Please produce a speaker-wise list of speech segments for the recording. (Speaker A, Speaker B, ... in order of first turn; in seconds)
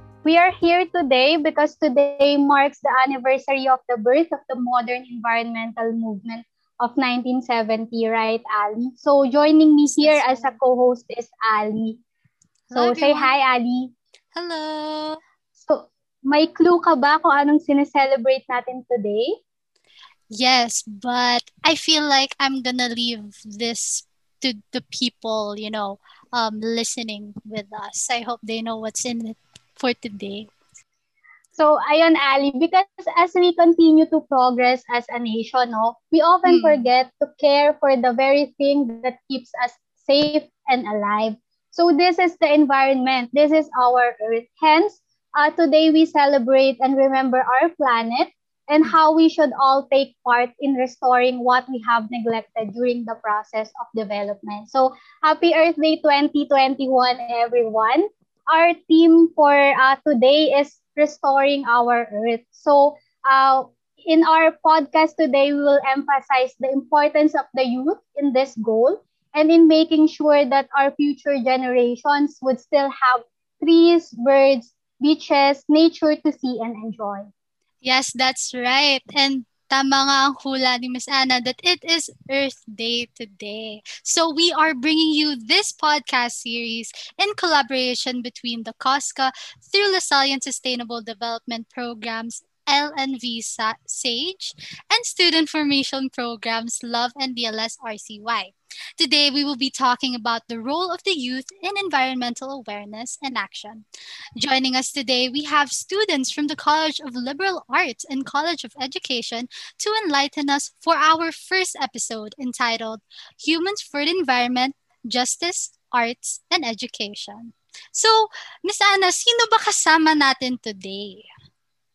Speaker A: 0.2-12.0, 12.8-13.9, 15.6-19.4, 31.6-77.3
Speaker B: 9.9-10.6, 12.7-13.3, 14.3-15.2, 20.3-30.5, 36.5-36.9, 77.8-103.8, 104.4-121.3